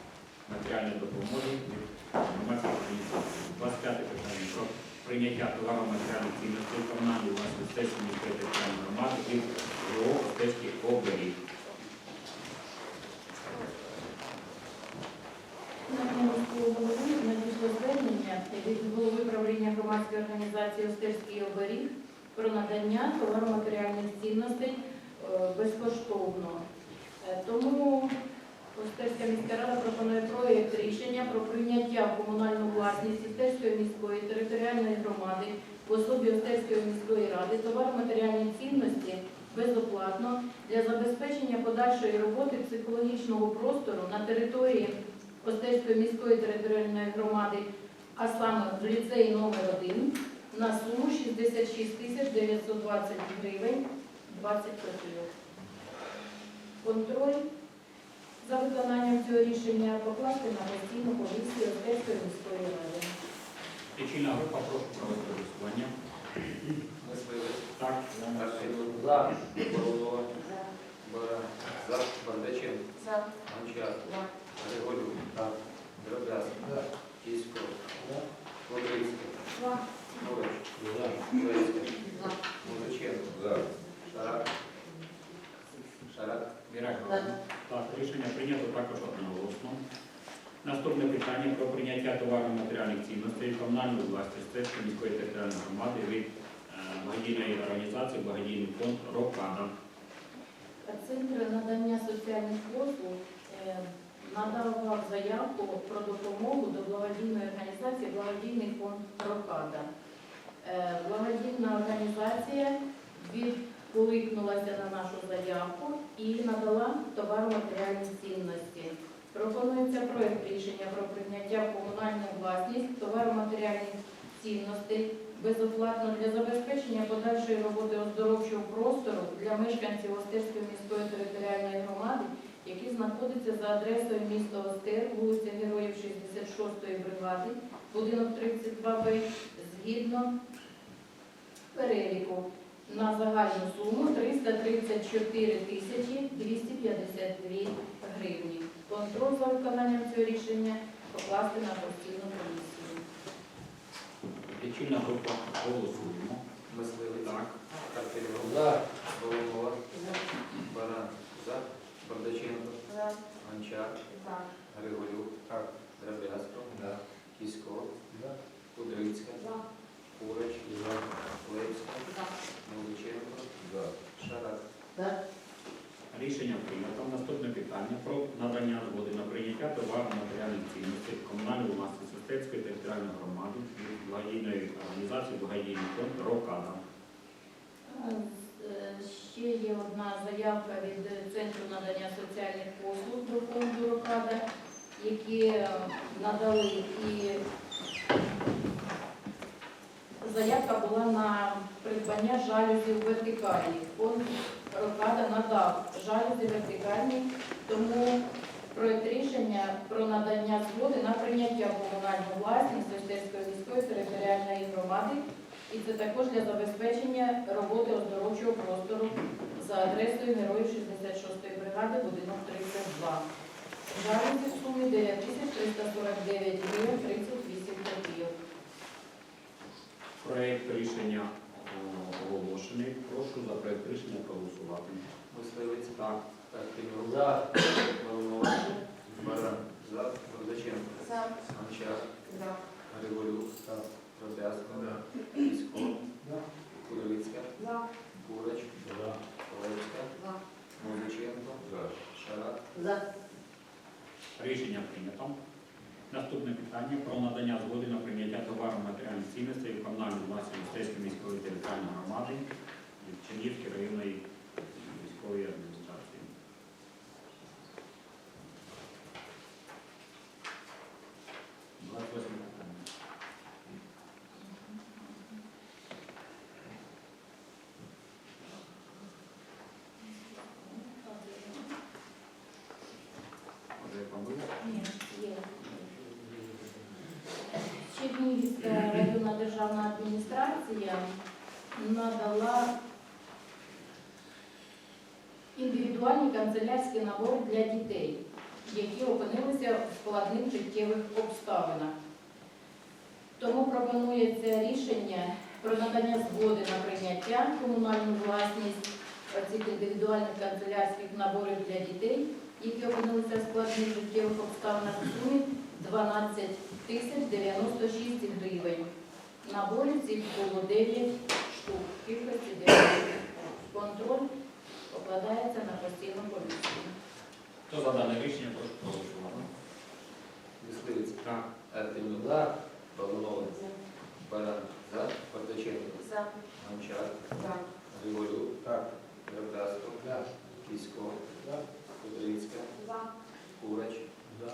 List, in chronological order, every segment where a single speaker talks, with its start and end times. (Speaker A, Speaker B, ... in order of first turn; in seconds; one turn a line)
Speaker A: 0.5-11.4
Speaker B: 15.9-26.6
Speaker B: 27.2-28.1
Speaker B: 28.8-55.3
Speaker B: 56.8-57.5
Speaker B: 58.4-63.1
Speaker A: 64.0-65.9
Speaker C: 67.0-67.7
Speaker A: 67.8-68.4
Speaker C: 68.3-70.4
Speaker C: 71.0-75.3
Speaker C: 76.0-77.9
Speaker C: 78.7-79.6
Speaker C: 80.1-84.6
Speaker C: 86.0-86.6
Speaker A: 86.7-89.8
Speaker A: 90.6-99.7
Speaker B: 100.8-109.9
Speaker B: 110.6-140.3
Speaker B: 141.7-153.0
Speaker A: 154.5-156.4
Speaker C: 156.7-162.8
Speaker C: 163.4-168.0
Speaker C: 168.8-169.6
Speaker C: 170.2-174.6
Speaker A: 176.1-186.8
Speaker B: 187.9-194.4
Speaker B: 195.0-197.4
Speaker B: 200.2-223.2
Speaker B: 223.9-228.3
Speaker A: 230.2-235.0
Speaker C: 235.3-246.0
Speaker C: 246.7-248.8
Speaker C: 249.4-250.2
Speaker C: 250.8-252.9
Speaker A: 254.4-255.3
Speaker A: 256.1-262.5
Speaker A: 263.0-266.3
Speaker A: 271.8-272.8
Speaker B: 274.5-275.2
Speaker B: 280.0-281.7
Speaker A: 283.8-284.7
Speaker B: 284.6-285.5
Speaker B: 287.6-291.1
Speaker B: 291.7-292.7
Speaker B: 295.6-301.9
Speaker B: 303.4-318.9
Speaker B: 319.4-324.3
Speaker B: 324.9-327.0
Speaker A: 327.7-329.5
Speaker C: 330.6-342.9
Speaker C: 343.5-344.1